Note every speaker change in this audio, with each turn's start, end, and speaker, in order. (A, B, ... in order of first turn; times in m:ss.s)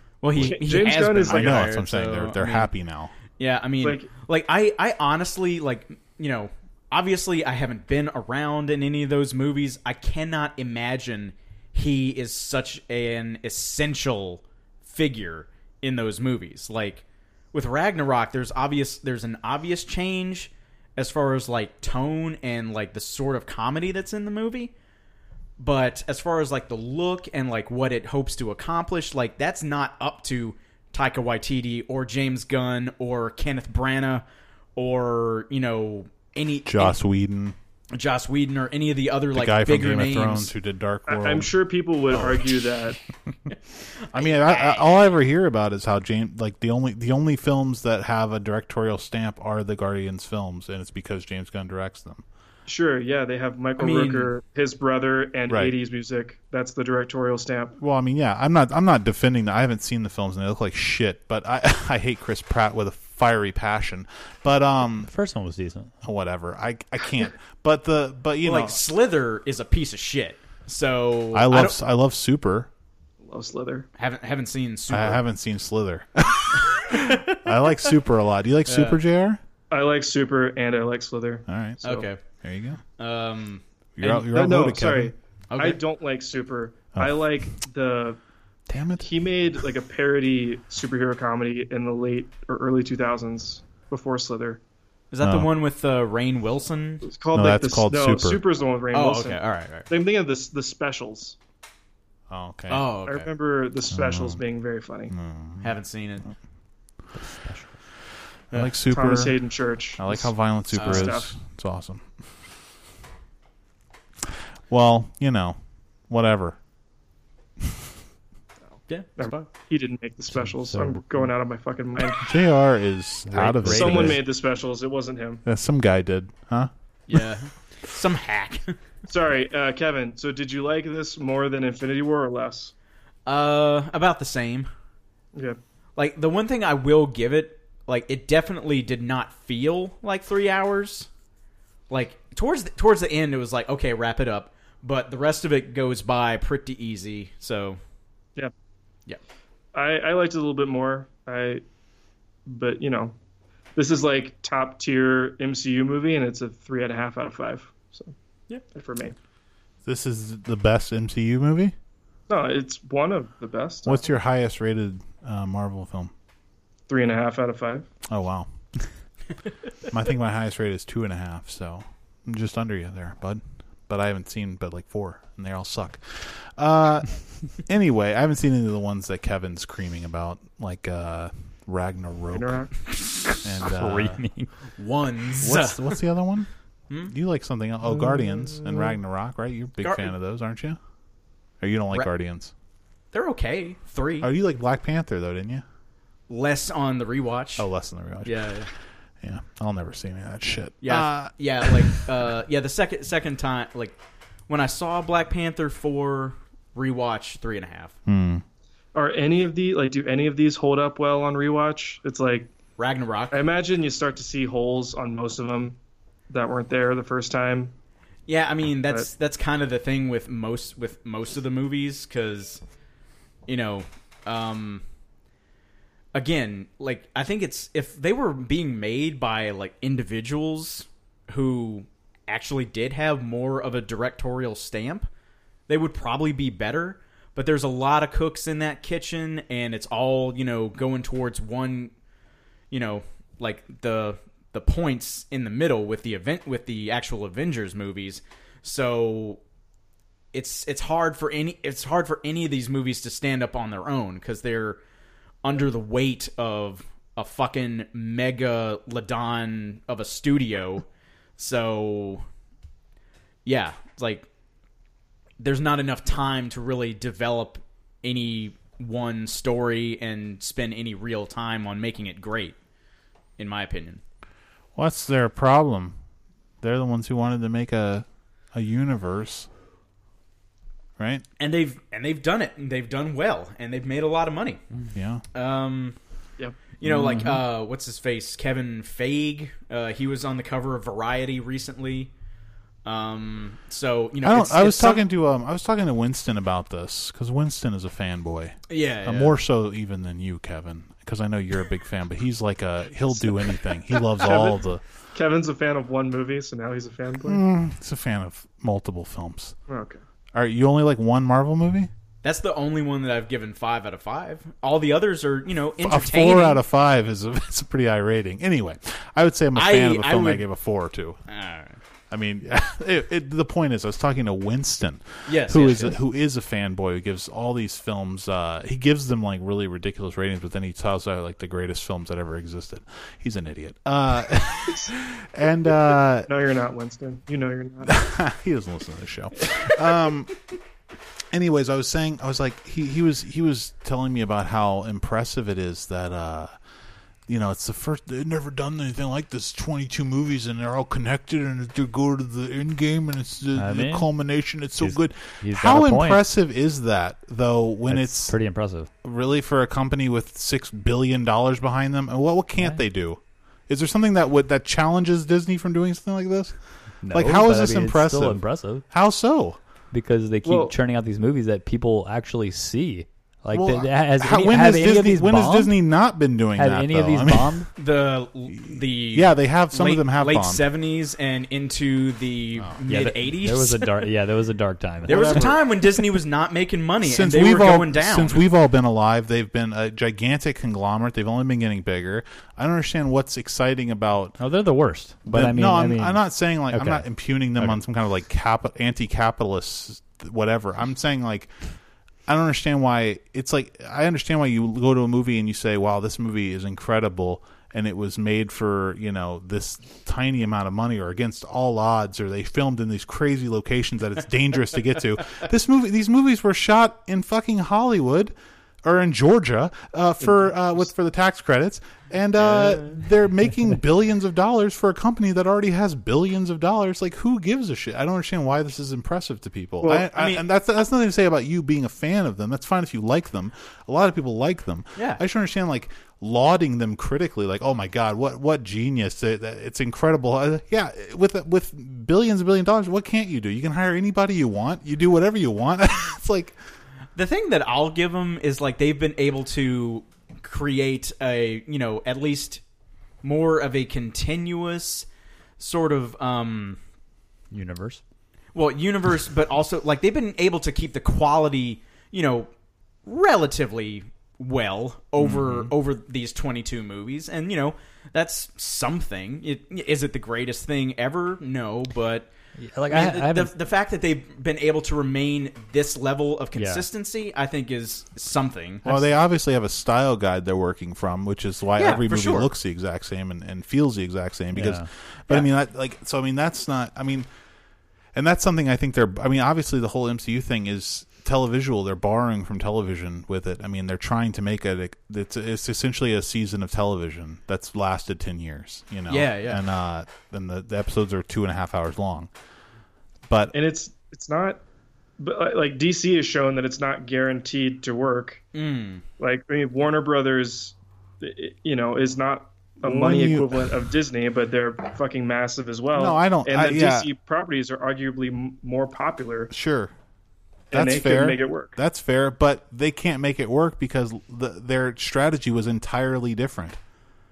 0:00.2-0:02.7 A
0:00.3-0:03.1 B
0:00.4-0:01.7 C
0:03.4-0:24.7 A
0:03.8-0:04.1 C
0:25.6-0:34.2 A
0:34.8-0:37.0 A
0:36.6-0:37.6 B
0:37.9-0:40.5 A
0:39.3-0:41.5 B
0:41.1-0:43.0 C
0:42.1-0:42.4 A
0:44.1-0:52.2 B
0:44.1-0:45.0 A
0:52.7-0:57.8 C
0:53.8-0:54.3 A
0:55.5-0:55.8 B
0:57.8-1:05.1 B
1:05.0-1:05.9 D
1:06.0-1:08.8 B
1:08.4-1:11.8 A
1:11.3-1:12.7 B
1:13.2-1:13.9 C
1:14.0-1:15.2 A
1:14.9-1:19.4 B
1:16.7-1:17.5 A
1:18.7-1:19.0 A
1:19.7-1:22.1 C
1:21.5-1:21.8 B
1:21.8-1:22.2 A
1:22.4-1:22.8 B
1:23.0-1:24.3 A
1:24.0-1:25.1 B
1:24.3-1:28.2 C
1:25.5-1:25.8 A
1:27.0-1:27.5 B
1:28.7-1:29.1 B
1:29.0-1:34.6 C
1:35.1-1:37.1 A
1:35.2-1:35.5 B
1:37.0-1:41.4 C
1:37.3-1:38.4 B
1:38.9-1:39.9 A
1:42.3-1:42.8 B
1:42.7-1:43.3 A
1:43.0-1:45.1 C
1:43.9-1:44.4 B
1:45.1-1:45.7 B
1:45.6-1:46.3 A
1:47.1-1:47.8 D
1:48.5-1:49.4 B
1:48.9-1:51.3 C
1:50.0-1:52.1 B
1:50.7-1:51.2 A
1:54.7-1:55.6 B
1:56.1-1:56.6 B
1:58.9-1:59.5 A
1:59.2-2:02.3 C
2:00.3-2:01.2 D
2:02.2-2:04.2 B
2:03.2-2:04.2 D
2:03.7-2:05.4 C
2:05.4-2:06.7 B
2:07.1-2:08.8 A
2:09.1-2:12.7 C
2:13.2-2:14.7 A
2:16.0-2:21.1 A
2:21.9-2:27.8 A
2:29.7-2:31.6 C
2:32.4-2:33.2 C
2:33.8-2:38.1 C
2:38.7-2:39.2 C
2:39.8-2:41.7 B
2:42.3-2:44.0 C
2:43.8-2:46.1 B
2:46.9-2:47.9 C
2:48.1-2:48.5 B
2:49.9-3:02.7 B
3:02.3-3:02.7 C
3:02.9-3:03.3 A
3:03.4-3:04.2 B
3:03.5-3:04.5 D
3:04.8-3:06.0 A
3:05.4-3:06.5 B
3:06.9-3:07.1 A
3:07.1-3:10.8 B
3:09.8-3:10.1 A
3:11.6-3:12.5 B
3:13.1-3:14.3 A
3:14.2-3:15.6 B
3:16.3-3:17.7 A
3:17.6-3:18.6 B
3:18.2-3:18.7 A
3:19.2-3:22.0 B
3:20.8-3:24.0 A
3:24.5-3:27.9 A
3:28.0-3:28.4 B
3:28.9-3:32.5 C
3:32.8-3:33.4 A
3:33.3-3:37.7 C
3:38.3-3:42.6 A
3:43.4-3:44.8 A
3:46.1-3:55.1 A
3:55.7-4:01.9 A
4:02.7-4:09.4 A
4:10.3-4:14.8 A
4:15.4-4:20.8 A
4:21.4-4:22.2 A
4:23.4-4:24.2 A
4:25.4-4:32.5 A
4:33.4-4:34.0 A
4:34.7-4:36.0 B
4:36.6-4:39.5 B
4:41.0-4:41.2 B
4:41.4-4:44.6 A
4:44.9-4:45.2 B
4:45.3-4:46.0 A
4:46.8-4:52.1 A
4:46.8-4:47.4 B
4:52.8-4:55.0 A
4:54.2-5:04.8 B
4:58.7-4:59.3 A
5:04.2-5:04.6 C
5:05.1-5:07.4 C
5:07.2-5:09.5 B
5:09.7-5:10.0 C
5:10.3-5:11.9 B
5:12.2-5:16.6 A
5:15.8-5:21.2 B
5:19.5-5:20.4 A
5:21.3-5:21.8 A
5:22.1-5:36.3 B
5:25.2-5:26.0 A
5:34.7-5:34.9 C
5:36.2-5:38.0 C
5:37.8-5:40.3 B
5:41.3-5:46.5 B
5:47.3-5:58.4 B
5:53.5-5:54.1 D
5:54.8-5:56.2 D
5:57.9-5:58.9 D
5:59.0-6:06.6 B
6:07.0-6:08.8 D
6:07.1-6:09.6 B
6:09.9-6:15.8 D
6:10.4-6:10.7 C
6:13.5-6:17.7 B
6:16.6-6:17.7 D
6:17.8-6:24.0 A
6:18.5-6:20.6 B
6:22.6-6:22.9 B
6:22.9-6:25.5 D
6:25.0-6:25.6 B
6:25.0-6:28.4 A
6:27.0-6:34.4 B
6:34.4-6:37.8 D
6:35.3-6:41.5 B
6:42.3-7:26.6 B
7:02.4-7:03.0 A
7:09.8-7:10.1 C
7:10.1-7:10.4 A
7:15.0-7:15.2 A
7:27.1-7:32.6 A
7:33.2-7:35.1 A
7:35.6-7:36.8 A
7:37.5-7:38.0 D
7:38.5-7:42.5 A
7:43.0-7:52.3 A
7:45.2-7:45.7 B
7:52.6-7:53.5 D
7:52.9-7:58.8 A
7:56.5-7:56.8 D
7:58.8-8:07.3 B
7:58.8-7:59.1 D
8:01.8-8:02.5 A
8:04.5-8:04.9 D
8:08.1-8:22.3 B
8:19.1-8:19.6 A
8:23.3-8:23.5 B
8:23.5-8:24.6 C
8:25.2-8:28.4 C
8:28.5-8:29.0 A
8:29.2-8:39.5 C
8:32.8-8:33.7 B
8:35.9-8:37.1 B
8:39.5-8:39.9 B
8:40.7-8:41.8 C
8:40.7-8:46.8 B